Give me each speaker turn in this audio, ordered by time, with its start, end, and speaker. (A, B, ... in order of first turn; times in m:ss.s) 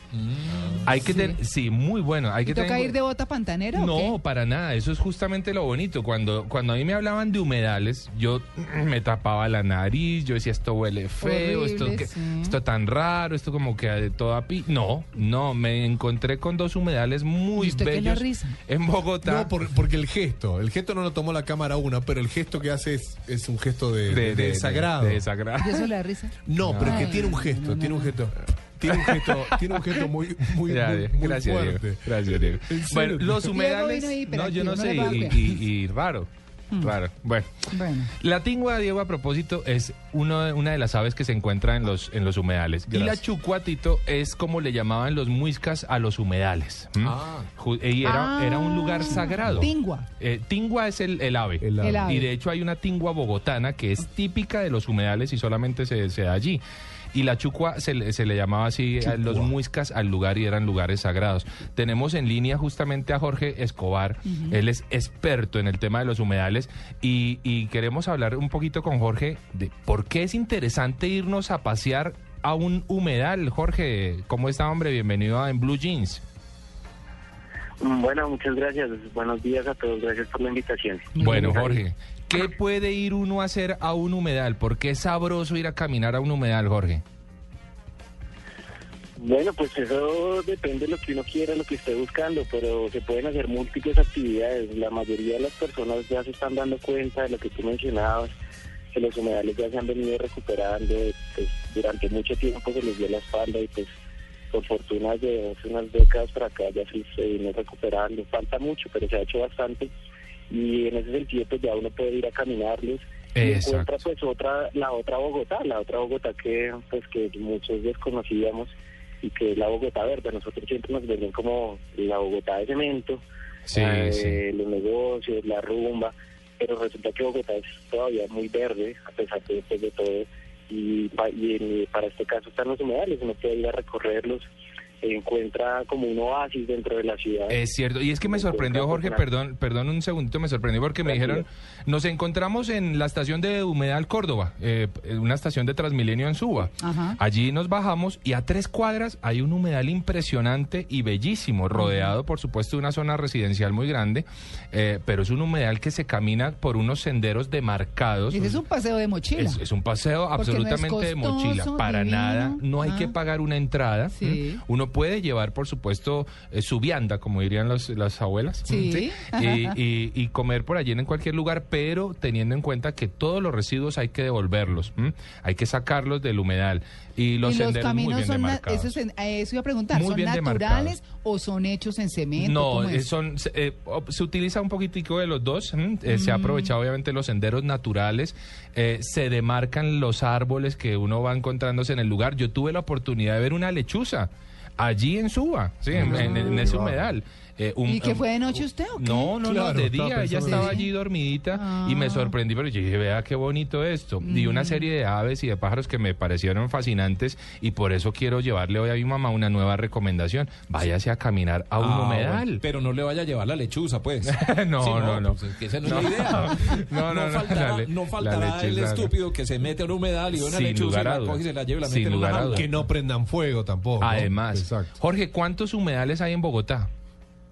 0:00.3-0:00.8 A
0:00.8-0:03.0 B
0:01.0-0:01.4 C
0:02.4-0:04.2 C
0:03.7-0:19.5 B
0:11.2-0:12.6 C
0:17.6-0:18.6 C
0:19.2-0:25.3 D
0:24.1-0:25.9 B
0:25.6-0:28.1 C
0:26.5-0:33.5 D
0:26.6-0:27.2 B
0:28.8-0:30.0 B
0:30.7-0:37.6 B
0:33.5-0:35.6 C
0:37.7-0:38.1 C
0:38.1-0:56.6 B
0:42.9-0:43.2 D
0:47.0-0:47.5 A
0:48.0-0:50.1 C
0:51.6-0:52.1 D
0:51.8-0:52.3 C
0:57.1-1:16.2 B
0:59.0-0:59.5 D
1:04.3-1:04.6 C
1:17.8-1:21.8 E
1:21.2-1:21.7 C
1:21.2-1:27.0 B
1:29.2-1:38.3 E
1:38.9-1:43.9 E
1:44.5-1:49.9 E
1:50.5-2:03.2 E
1:53.4-1:53.9 B
2:03.7-2:04.4 B
2:03.8-2:14.5 E
2:15.0-2:17.6 E
2:17.5-2:38.6 B
2:18.2-2:19.2 E
2:21.1-2:21.4 E
2:26.8-2:27.2 C
2:31.8-2:32.2 C
2:38.3-2:39.6 C
2:39.4-2:59.0 B
2:40.3-2:43.1 C
2:44.1-2:44.6 C
2:48.7-2:49.8 C
2:57.4-3:03.1 C
2:59.9-3:01.0 B
3:02.4-3:18.3 B
3:06.1-3:06.7 C
3:15.9-3:17.1 D
3:16.0-3:16.7 C
3:17.9-3:19.3 C
3:19.0-3:32.6 B
3:19.4-3:20.8 D
3:20.4-3:20.9 C
3:21.5-3:22.4 C
3:24.2-3:24.9 C
3:31.8-3:42.7 A
3:34.2-3:39.2 B
3:40.3-3:42.7 B
3:42.5-3:44.9 D
3:44.0-3:46.9 B